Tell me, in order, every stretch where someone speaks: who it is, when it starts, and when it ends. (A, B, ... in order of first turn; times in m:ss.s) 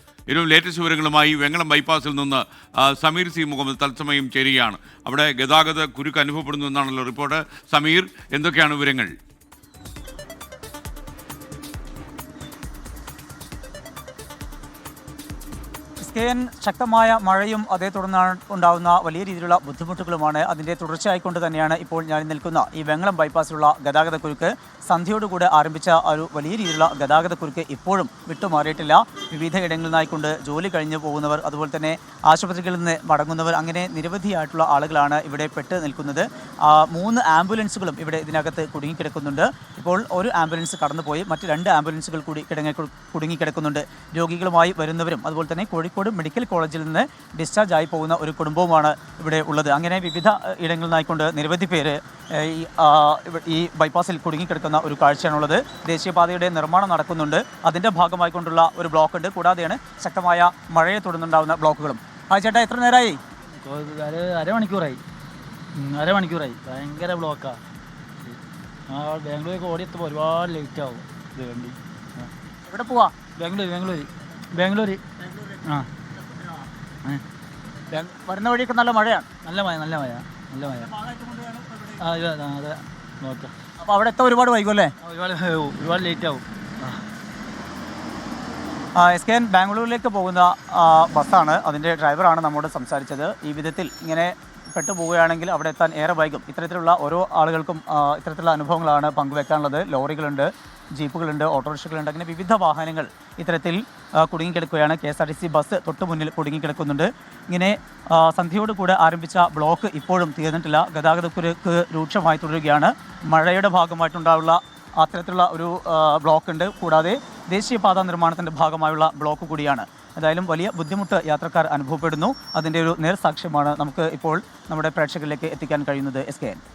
0:00.3-0:09.1 A
0:16.0-1:03.2 B
1:03.6-1:05.0 C
1:05.8-1:07.6 C
1:08.9-1:12.3 C
1:12.7-1:13.2 B
1:13.4-1:15.0 C
1:15.6-1:15.9 C
1:17.9-1:19.3 B
1:19.4-1:21.1 C
1:21.1-1:21.9 B
1:22.0-1:23.5 C
1:23.8-1:24.9 B
1:25.0-1:27.0 C
1:29.0-2:06.6 B